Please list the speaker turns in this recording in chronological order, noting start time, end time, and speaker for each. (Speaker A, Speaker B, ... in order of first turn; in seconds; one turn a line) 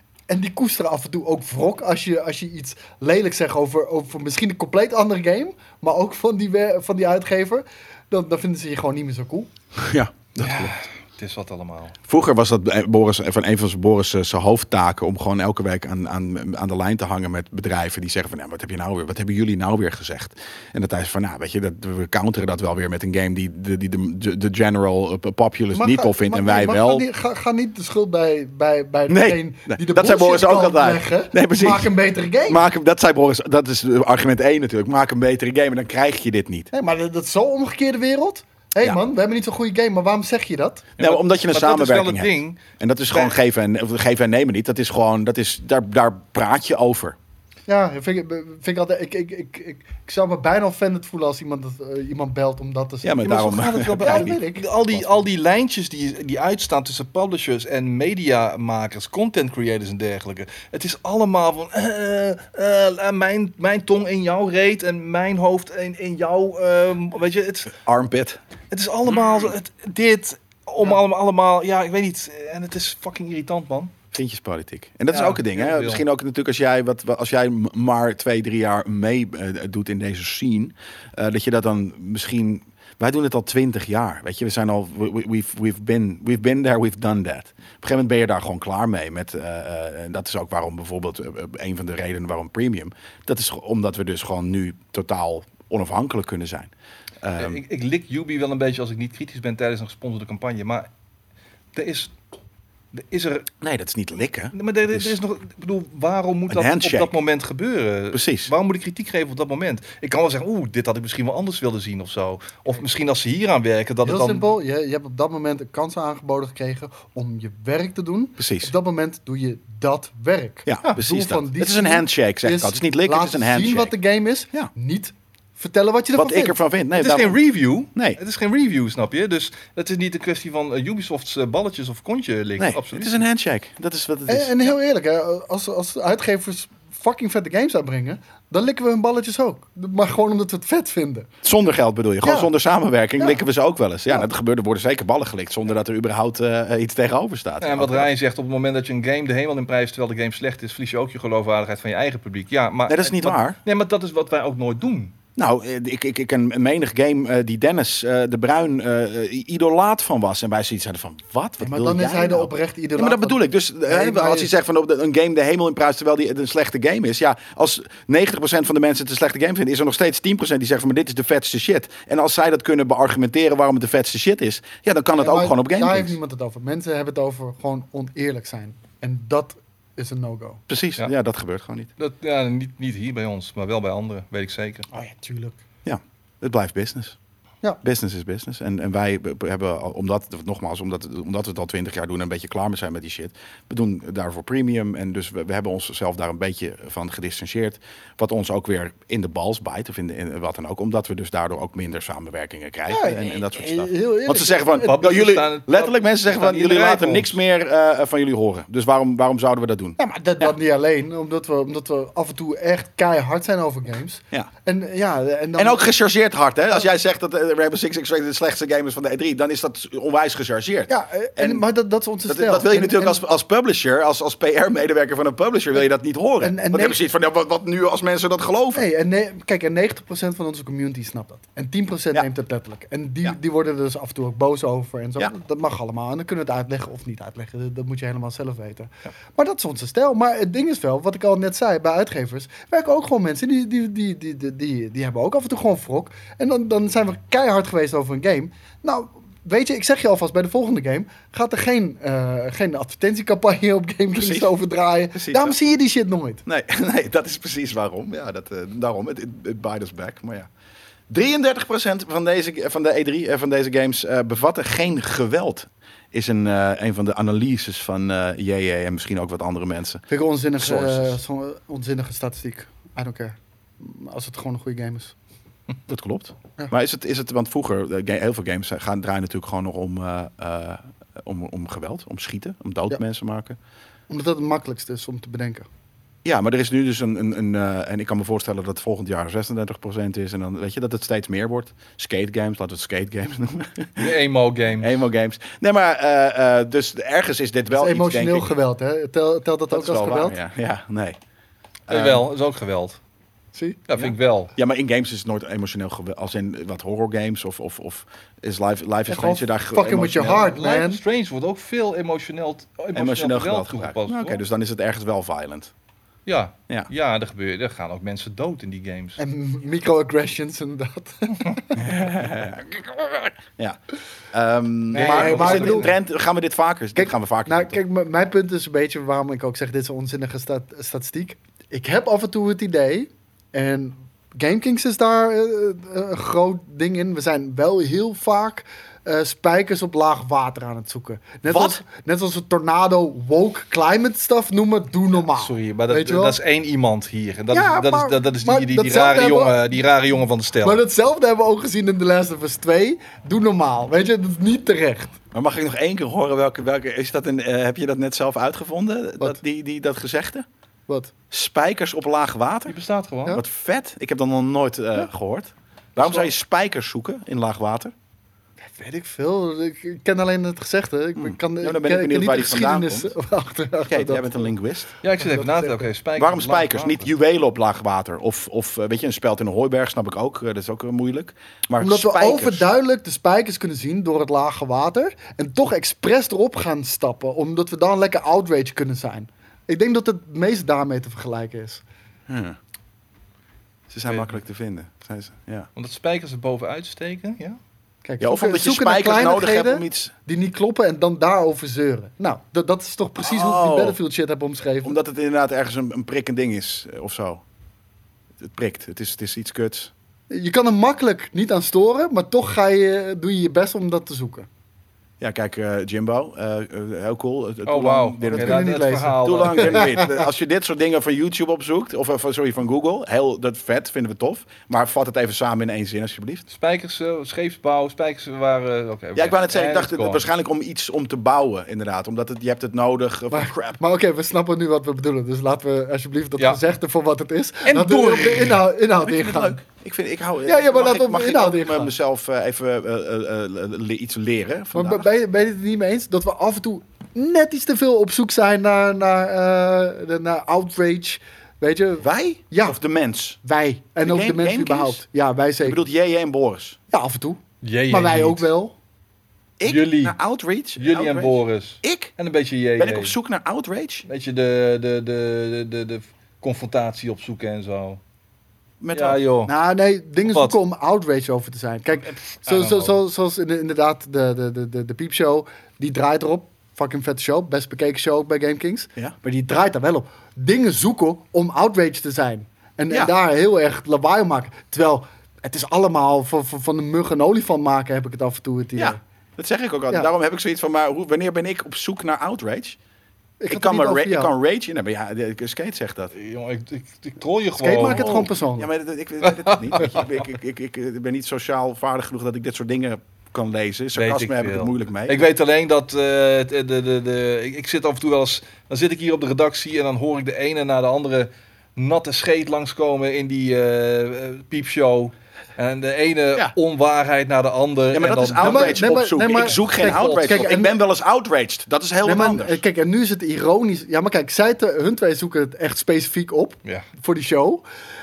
Speaker A: 0.3-9.5
Speaker B: 9.7-10.7
Speaker C: 10.4-12.0
Speaker B: 12.1-27.0
Speaker A: 25.7-32.6
Speaker B: 29.1-31.9
Speaker B: 32.5-36.7
Speaker A: 36.7-40.9
Speaker C: 41.0-43.3
Speaker B: 41.0-47.2
Speaker A: 47.7-54.7
Speaker B: 53.0-54.4
Speaker C: 53.4-67.8
Speaker B: 67.7-68.4
Speaker C: 68.7-73.9
Speaker B: 74.1-97.6
Speaker C: 75.1-76.0
Speaker C: 97.4-100.9
Speaker C: 101.7-102.1
Speaker C: 102.9-103.5
Speaker B: 103.6-105.2
Speaker C: 104.5-114.5
Speaker B: 106.5-107.1
Speaker B: 108.1-108.5
Speaker A: 114.0-126.5
Speaker B: 118.4-118.7
Speaker B: 120.7-123.9
Speaker B: 126.1-127.4
Speaker C: 126.9-133.2
Speaker B: 127.9-128.2
Speaker B: 132.6-134.7
Speaker A: 134.3-141.3
Speaker B: 141.4-148.1
Speaker A: 142.2-142.5
Speaker C: 147.6-155.1
Speaker B: 152.9-153.6
Speaker B: 155.3-176.2
Speaker A: 161.6-164.5
Speaker A: 175.2-180.6
Speaker B: 180.7-181.9
Speaker C: 182.0-184.9
Speaker A: 184.9-185.6
Speaker B: 185.8-187.2
Speaker B: 187.8-210.5
Speaker A: 202.9-205.1
Speaker C: 204.8-207.3
Speaker A: 210.0-215.9
Speaker B: 215.6-221.6
Speaker A: 220.9-223.2
Speaker B: 222.3-228.8
Speaker A: 226.4-227.0
Speaker A: 228.7-256.4
Speaker B: 254.2-254.5
Speaker B: 255.1-255.6
Speaker B: 256.4-260.5
Speaker B: 261.1-270.0
Speaker A: 270.1-275.1
Speaker B: 270.6-271.1
Speaker B: 275.9-283.6
Speaker A: 284.1-285.7
Speaker B: 286.2-294.2
Speaker C: 294.0-295.0
Speaker B: 294.8-298.5
Speaker A: 297.7-300.4
Speaker B: 299.7-301.2
Speaker B: 301.9-302.2
Speaker C: 301.9-303.0
Speaker A: 303.5-303.8
Speaker C: 303.9-304.5
Speaker B: 304.0-310.5
Speaker A: 309.1-311.0
Speaker C: 310.2-314.4
Speaker B: 312.9-315.7
Speaker C: 316.2-319.2
Speaker A: 319.2-321.8
Speaker B: 321.7-323.8
Speaker B: 324.3-327.8
Speaker A: 324.9-325.9
Speaker C: 324.9-325.9
Speaker A: 326.9-346.4
Speaker B: 341.4-341.8
Speaker C: 345.1-350.8
Speaker A: 347.5-349.6
Speaker A: 350.6-355.1
Speaker B: 355.3-360.4
Speaker A: 360.9-361.1
Speaker B: 361.3-362.8
Speaker C: 362.7-363.4
Speaker B: 363.3-367.9
Speaker C: 366.0-366.3
Speaker A: 368.6-374.5
Speaker B: 371.2-373.1
Speaker B: 373.9-374.9
Speaker C: 375.0-377.1
Speaker A: 375.2-375.8
Speaker B: 376.1-382.7
Speaker A: 381.8-391.8
Speaker B: 392.3-392.6
Speaker B: 393.9-395.7
Speaker C: 394.1-394.3
Speaker C: 395.8-397.6
Speaker A: 398.0-404.9
Speaker B: 398.2-400.1
Speaker B: 403.2-404.0
Speaker B: 404.8-407.4
Speaker B: 408.4-409.9
Speaker A: 410.3-414.5
Speaker B: 415.2-426.4
Speaker C: 417.6-419.9
Speaker A: 418.3-420.1
Speaker C: 426.5-430.2
Speaker B: 429.1-433.8
Speaker A: 433.3-439.6
Speaker B: 437.7-445.1
Speaker A: 440.4-441.9
Speaker A: 444.7-452.8
Speaker B: 452.0-453.4
Speaker A: 453.4-455.8
Speaker B: 454.0-455.0
Speaker B: 455.6-456.8
Speaker A: 456.9-458.8
Speaker C: 457.6-458.5
Speaker B: 459.6-462.1
Speaker C: 459.6-460.2
Speaker C: 460.8-463.1
Speaker B: 462.8-464.0
Speaker C: 464.1-468.0
Speaker B: 468.8-469.2
Speaker C: 468.9-469.5
Speaker A: 469.4-489.0
Speaker C: 470.2-470.6
Speaker C: 472.4-473.0
Speaker B: 488.8-492.8
Speaker A: 493.4-494.3
Speaker B: 493.5-496.1
Speaker C: 496.1-498.3
Speaker A: 497.6-498.7
Speaker B: 497.8-505.2
Speaker C: 499.2-500.0
Speaker C: 503.9-518.8
Speaker B: 517.9-522.6
Speaker A: 518.4-520.7
Speaker C: 519.6-520.5
Speaker A: 522.0-527.6